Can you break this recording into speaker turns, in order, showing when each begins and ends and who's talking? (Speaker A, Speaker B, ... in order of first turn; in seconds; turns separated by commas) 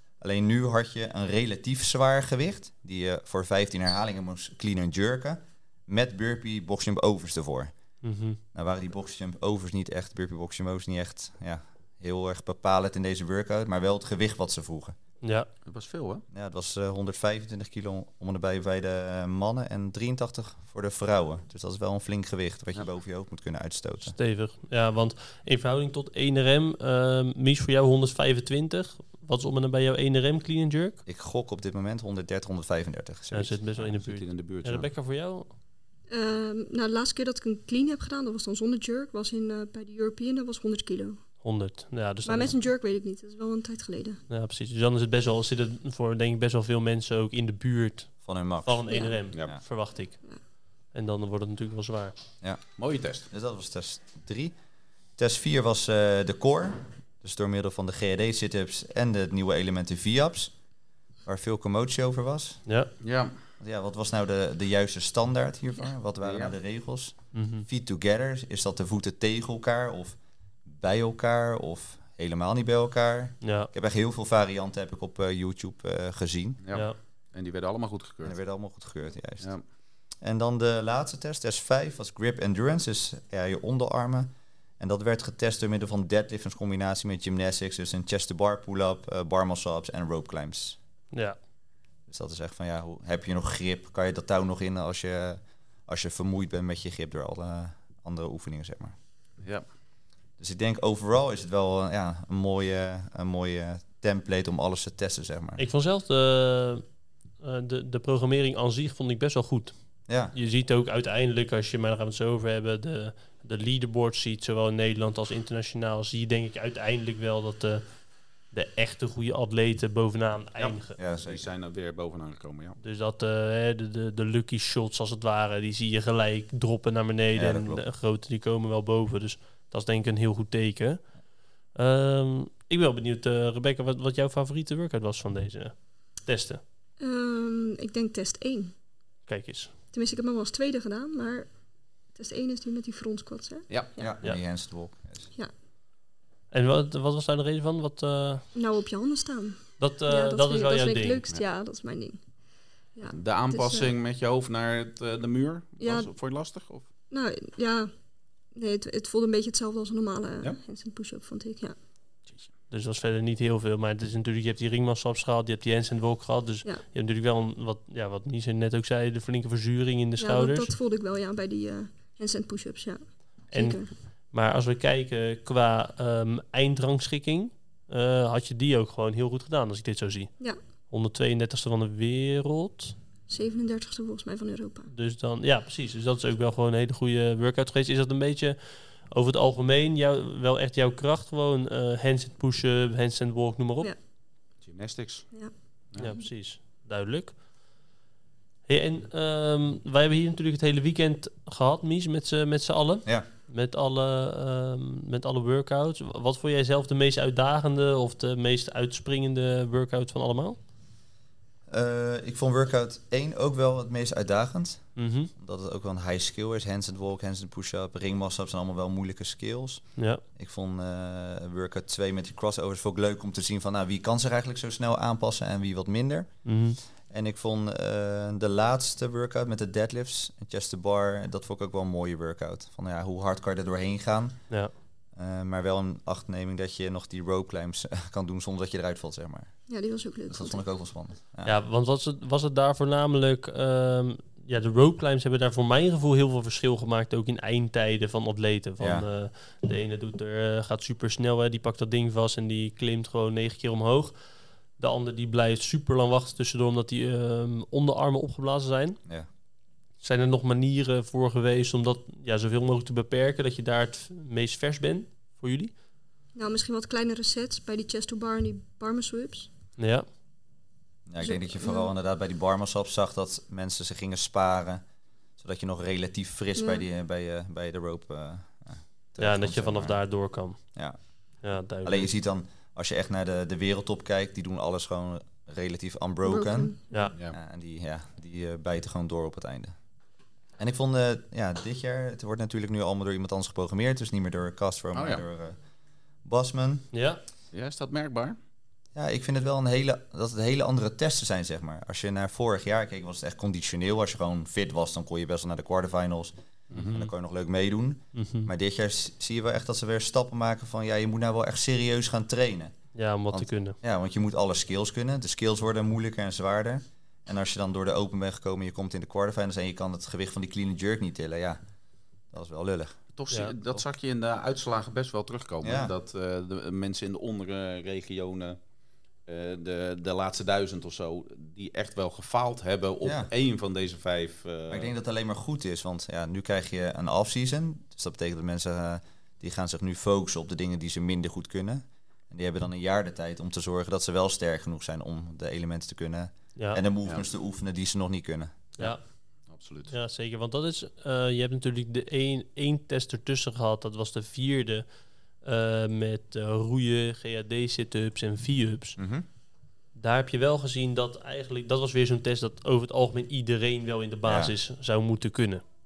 Speaker A: 0.2-7.7, Speaker B: 8.0-8.4, Speaker A: 8.5-14.9, Speaker B: 15.2-15.5, Speaker C: 15.7-16.2, Speaker A: 16.3-24.1, Speaker B: 24.1-31.0, Speaker A: 31.1-33.6, Speaker B: 33.3-35.5, Speaker C: 33.8-34.9, Speaker D: 36.1-41.2, Speaker B: 41.4-42.5, Speaker D: 42.2-44.2, Speaker B: 44.3-48.1, Speaker A: 48.2-48.8, Speaker B: 48.6-50.2, Speaker D: 48.9-49.2, Speaker B: 50.9-52.1, Speaker C: 52.8-53.3, Speaker A: 53.3-54.5, Speaker A: 55.2-60.5, Speaker A: 61.2-62.6, Speaker B: 62.6-62.9, Speaker C: 63.0-63.3, Speaker A: 63.6-76.6, Speaker C: 66.2-66.5, Speaker B: 67.3-67.7, Speaker B: 73.4-73.7, Speaker C: 76.6-78.4, Speaker A: 78.2-79.5, Speaker A: 80.2-90.8, Speaker A: 92.1-98.9, Speaker A: 100.4-105.6, Speaker B: 105.6-106.8, Speaker B: 107.4-109.7, Speaker A: 110.1-110.3, Speaker B: 110.3-117.8, Speaker B: 118.5-121.0, Speaker C: 120.6-122.8, Speaker A: 121.0-121.5, Speaker B: 122.8-131.0, Speaker A: 127.3-127.8, Speaker B: 131.7-136.6, Speaker D: 137.0-138.7, Speaker B: 139.3-139.7, Speaker D: 139.9-141.5, Speaker D: 142.1-144.1, Speaker A: 144.0-145.3, Speaker B: 146.5-148.4, Speaker D: 148.5-152.2, Speaker B: 149.8-151.2, Speaker D: 152.9-153.9, Speaker C: 153.1-156.8, Speaker D: 155.8-156.1, Speaker D: 157.1-157.9, Speaker D: 158.5-161.8, Speaker B: 162.7-170.7, Speaker D: 170.2-173.9, Speaker B: 173.5-173.8, Speaker B: 174.3-180.3, Speaker B: 180.9-182.9, Speaker D: 183.3-184.9, Speaker B: 184.9-188.6, Speaker B: 189.1-193.9, Speaker C: 194.6-195.3, Speaker D: 195.3-196.2, Speaker B: 196.0-197.3, Speaker B: 198.7-210.6, Speaker A: 211.7-219.8, Speaker B: 214.9-215.3, Speaker A: 220.3-226.3, Speaker B: 226.4-226.8, Speaker A: 227.1-234.4, Speaker A: 235.1-239.5, Speaker D: 239.7-240.6, Speaker A: 240.3-241.5, Speaker B: 241.4-254.1, Speaker A: 248.8-249.1, Speaker B: 254.8-259.0, Speaker B: 260.0-265.7, Speaker D: 266.3-269.5, Speaker B: 269.8-270.1, Speaker A: 271.1-274.8, Speaker D: 271.2-271.9, Speaker A: 275.4-279.9, Speaker D: 276.6-276.8, Speaker B: 279.2-280.6, Speaker B: 281.4-282.1, Speaker A: 281.8-286.7, Speaker D: 286.2-287.1, Speaker A: 287.3-289.7, Speaker A: 290.6-295.6, Speaker C: 294.9-295.2, Speaker A: 296.2-296.9, Speaker B: 296.9-297.2, Speaker C: 297.5-298.4, Speaker A: 298.9-312.7, Speaker B: 306.7-307.1, Speaker B: 308.1-308.5, Speaker B: 312.9-313.8, Speaker A: 313.3-321.6, Speaker A: 322.3-323.0, Speaker C: 323.1-328.6, Speaker B: 323.3-323.6, Speaker A: 325.6-325.9, Speaker C: 329.2-334.9, Speaker A: 334.7-348.5, Speaker C: 349.5-349.9, Speaker B: 349.9-354.9, Speaker B: 355.4-359.0, Speaker B: 359.9-365.6, Speaker A: 364.2-364.5